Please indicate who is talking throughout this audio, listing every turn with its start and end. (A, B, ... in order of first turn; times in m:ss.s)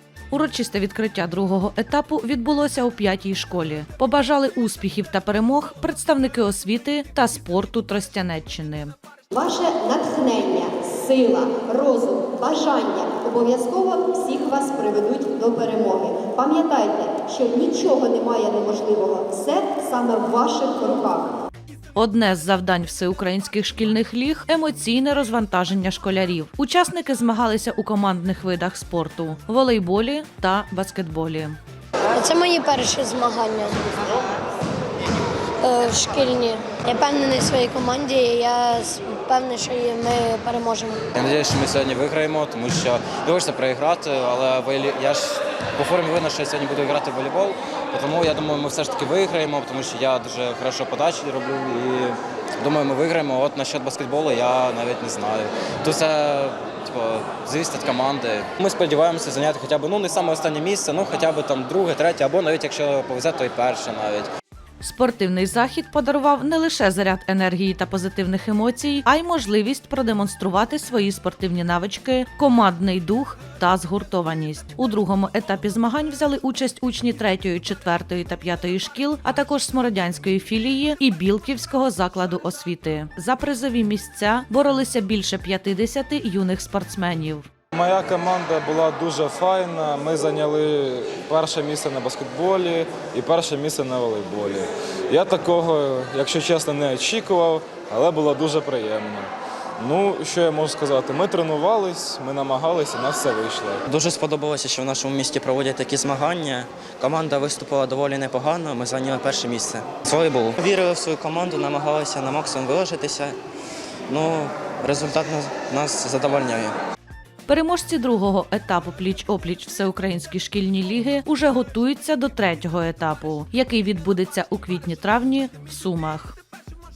0:00.3-0:08.9 A
0:09.3-0:21.4 B
0:21.9-0:31.6 A
0:32.1-0:34.1 C
0:35.6-0:41.0 C
0:41.1-1:04.3 D
1:04.8-1:27.5 A
1:27.7-1:43.8 E
1:43.9-1:53.4 F
1:54.1-1:56.8 F
1:57.5-2:06.4 A